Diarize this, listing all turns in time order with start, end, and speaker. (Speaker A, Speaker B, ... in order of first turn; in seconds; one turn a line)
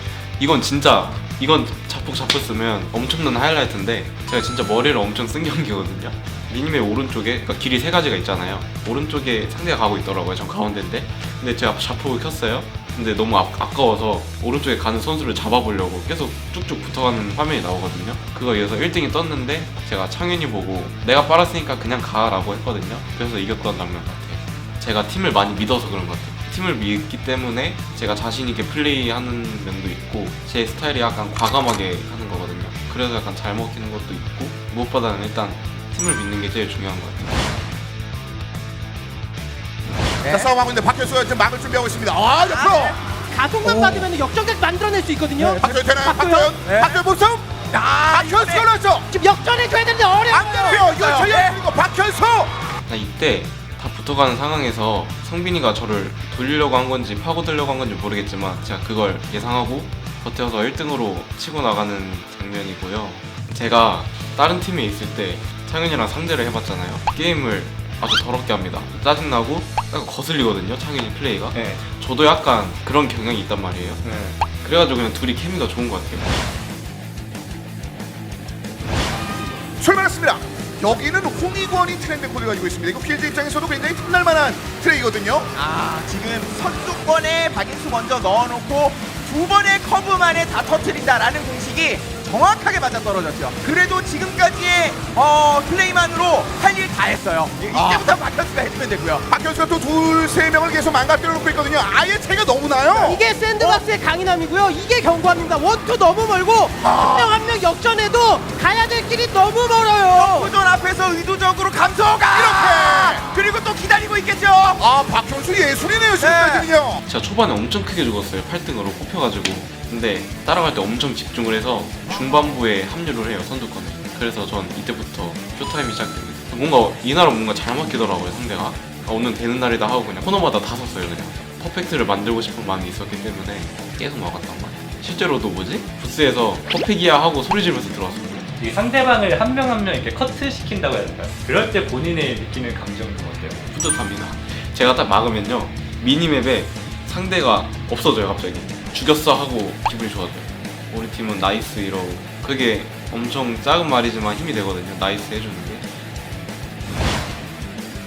Speaker A: 0.4-37.3
Speaker B: 40.2-40.5
Speaker C: 40.2-43.0
Speaker B: 42.4-43.0
Speaker D: 43.2-46.5
Speaker C: 43.7-44.0
Speaker C: 45.4-47.5
Speaker B: 46.6-47.0
Speaker B: 47.7-48.7
Speaker C: 48.1-49.0
Speaker D: 49.1-50.8
Speaker B: 50.3-51.6
Speaker C: 50.3-52.5
Speaker A: 52.9-74.0
Speaker E: 71.5-71.8
Speaker E: 74.0-74.4
Speaker A: 74.6-76.3
Speaker C: 79.8-85.5
Speaker B: 85.5-99.2
Speaker C: 97.7-98.1
Speaker C: 99.3-103.2
Speaker D: 103.0-110.5
Speaker C: 106.8-107.3
Speaker B: 110.1-114.8
Speaker C: 112.3-113.3
Speaker C: 114.8-117.0
Speaker B: 116.2-116.7
Speaker A: 117.0-138.5
Speaker E: 138.6-143.6
Speaker A: 143.7-155.9